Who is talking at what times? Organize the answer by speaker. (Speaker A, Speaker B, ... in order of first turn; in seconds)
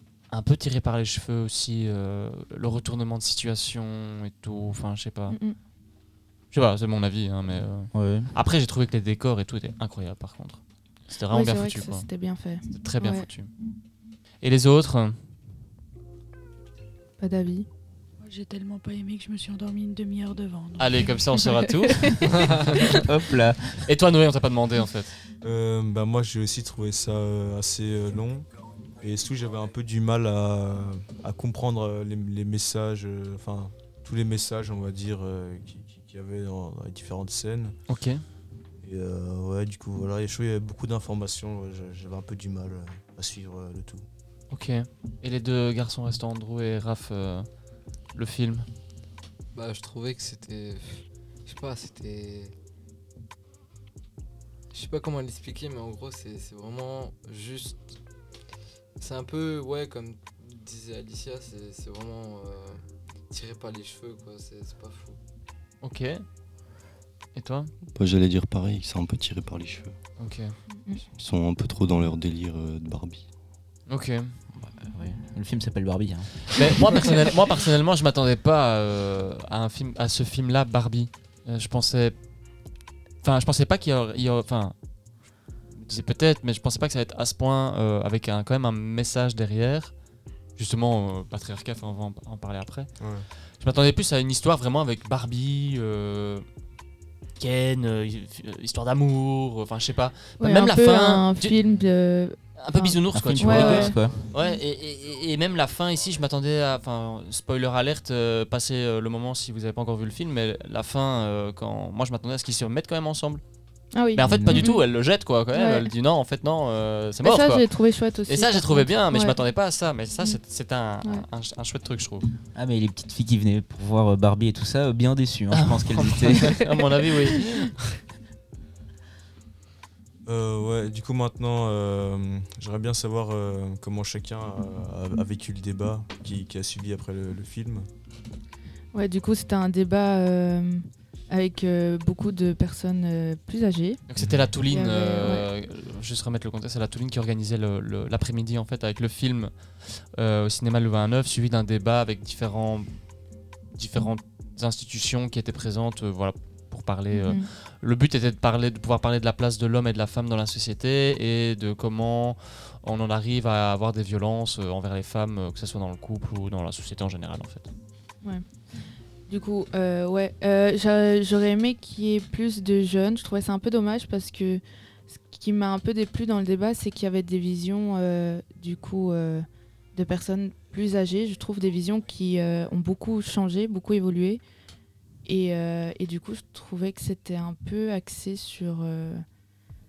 Speaker A: 0.3-5.4, 6.5-12.1, 12.7-13.5, 14.4-15.2, 20.8-22.6, 23.9-25.2, 37.9-38.2, 44.5-47.5, 48.1-48.7, 65.8-66.2, 67.3-67.7, 70.2-70.5, 73.9-74.4, 76.5-82.2, 83.2-84.8, 85.8-89.9, 90.6-92.9, 93.6-96.5, 97.4-101.8, 102.6-113.4, 114.1-117.7, 118.3-122.3, 125.5-127.8, 144.1-152.9, 153.8-167.7
Speaker B: 5.3-5.6, 11.3-13.3, 17.2-17.7, 70.7-71.0, 100.4-104.0, 113.9-114.8, 115.5-115.9, 117.2-119.4, 138.9-144.0, 144.7-145.5, 157.1-157.5, 169.3-184.4, 185.2-189.2
Speaker C: 7.9-8.3, 22.8-23.8, 74.5-77.1, 103.1-104.2, 114.3-114.7, 122.5-126.6
Speaker D: 18.2-21.2
Speaker E: 25.4-28.5, 29.0-37.8, 38.8-44.0, 93.0-93.3, 130.3-137.9, 144.2-144.5
Speaker F: 49.5-52.5, 54.7-58.0, 59.0-65.2
Speaker G: 67.9-70.0, 71.2-73.3